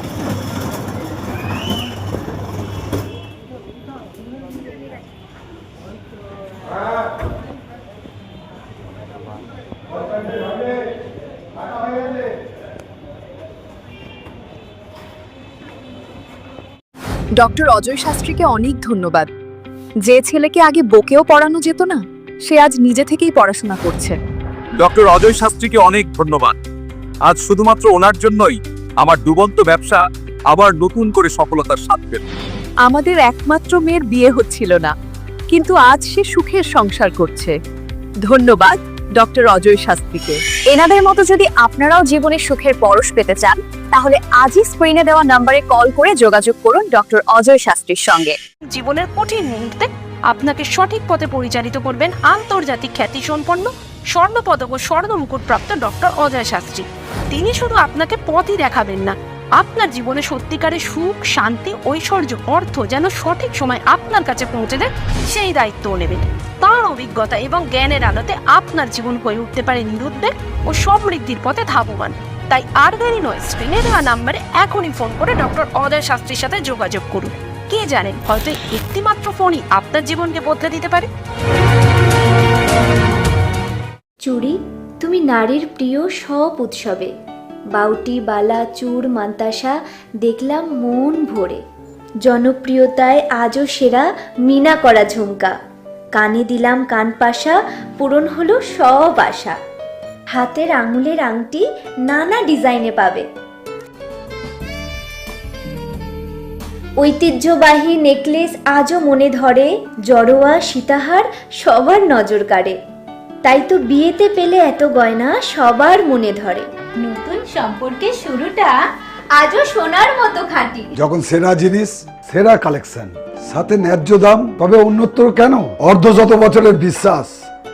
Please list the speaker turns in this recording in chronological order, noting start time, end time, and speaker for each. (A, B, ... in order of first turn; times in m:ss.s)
0:17.4-0:19.2 A
0:17.4-0:18.9 B
0:20.1-0:21.9 A
0:20.1-0:20.3 B
0:22.5-0:24.2 A
0:23.3-0:24.0 B
0:24.8-0:26.6 C
0:27.2-0:32.2 C
0:32.9-0:33.7 B
0:33.2-0:34.9 A
0:34.3-0:34.6 B
0:35.5-0:36.7 B
0:35.5-0:37.5 A
0:38.3-0:39.6 B
0:39.2-0:40.3 A
0:40.2-0:48.4 B
0:48.7-1:21.1 D
1:24.2-1:27.1 E
1:27.7-1:31.6 E
1:32.2-1:35.5 E
1:36.1-1:39.6 E
1:40.3-1:43.2 E
1:47.0-1:52.8 E
1:53.4-1:56.6 E
1:59.4-2:00.9 E
2:01.0-2:07.4 F